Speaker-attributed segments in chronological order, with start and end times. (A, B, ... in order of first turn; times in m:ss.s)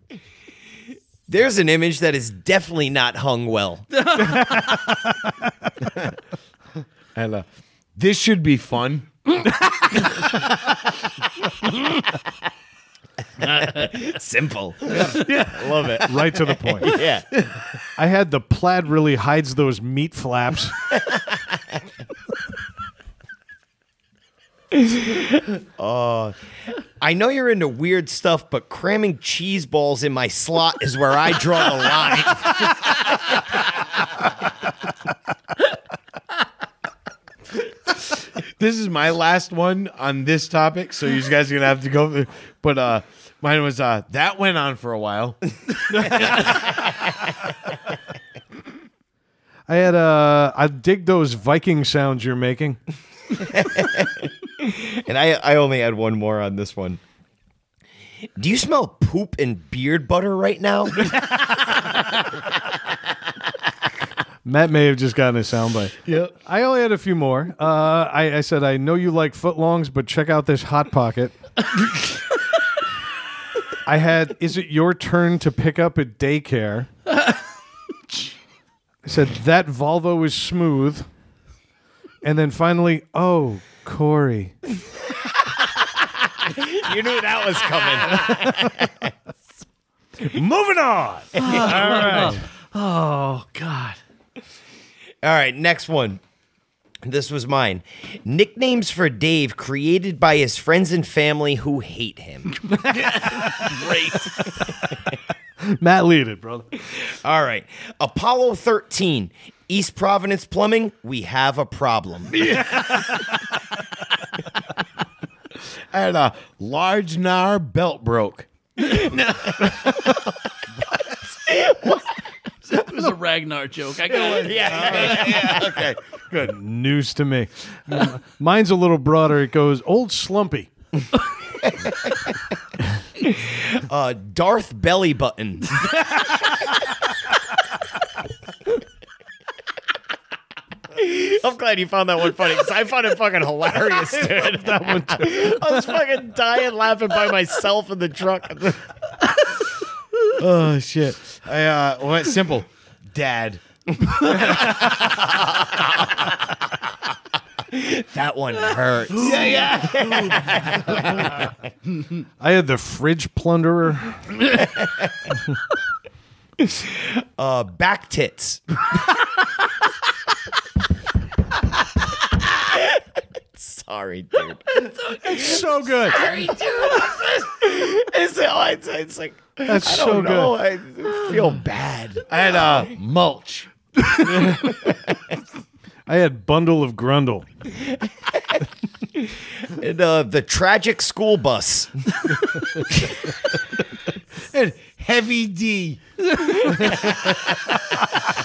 0:01.3-0:04.2 A
0:04.1-0:04.5 B
0:04.2-0:05.5 C
0:07.1-0:09.1 D
0:13.4-0:17.2 A
0:14.9-0:16.0 D
0:16.0-0:17.0 C
0:18.0-0:20.8 C
0:21.0-0:21.6 A
0:24.7-0:26.4 A
0:27.0-0:33.3 A
0:38.6-0:45.4 D
0:45.9-0:46.4 C
0:46.0-0:46.4 D
0:49.7-0:52.8 C
0:53.3-0:57.0 A
0:58.4-1:01.2 A
1:04.4-1:11.3 C
1:06.0-1:06.3 D
1:13.8-1:16.9 C
1:19.0-1:21.1 C
1:22.2-1:24.6 C
1:26.4-1:29.1 A
1:28.3-1:28.6 C
1:30.2-1:32.4 C
1:31.4-1:32.3 A
1:31.4-1:34.0 B
1:35.2-1:36.2 A
1:37.0-1:42.7 A
1:42.9-1:44.4 B
1:43.0-1:43.8 C
1:45.6-1:46.7 C
1:47.0-1:52.6 A
1:52.5-1:53.2 C
1:55.9-1:59.9 D
2:01.3-2:02.1 A
2:02.7-2:04.8 B
2:04.1-2:06.4 D
2:04.3-2:05.8 A
2:06.3-2:10.7 C
2:11.6-2:12.4 A
2:13.2-2:16.7 A
2:20.9-2:28.8 A
2:24.4-2:25.8 C
2:30.4-2:33.6 D
2:34.3-2:34.7 D
2:34.7-2:36.1 A
2:37.7-2:41.5 A
2:39.2-2:41.0 D
2:39.2-2:40.3 B
2:42.4-2:44.4 C
2:44.6-2:45.1 A
2:46.6-2:49.2 A
2:52.3-3:02.2 A
2:55.2-2:56.2 C
2:59.6-3:00.6 C
3:02.3-3:03.7 D
3:04.4-3:05.1 A
3:06.0-3:07.4 C
3:07.9-3:13.2 A
3:14.5-3:16.0 D
3:16.7-3:17.2 A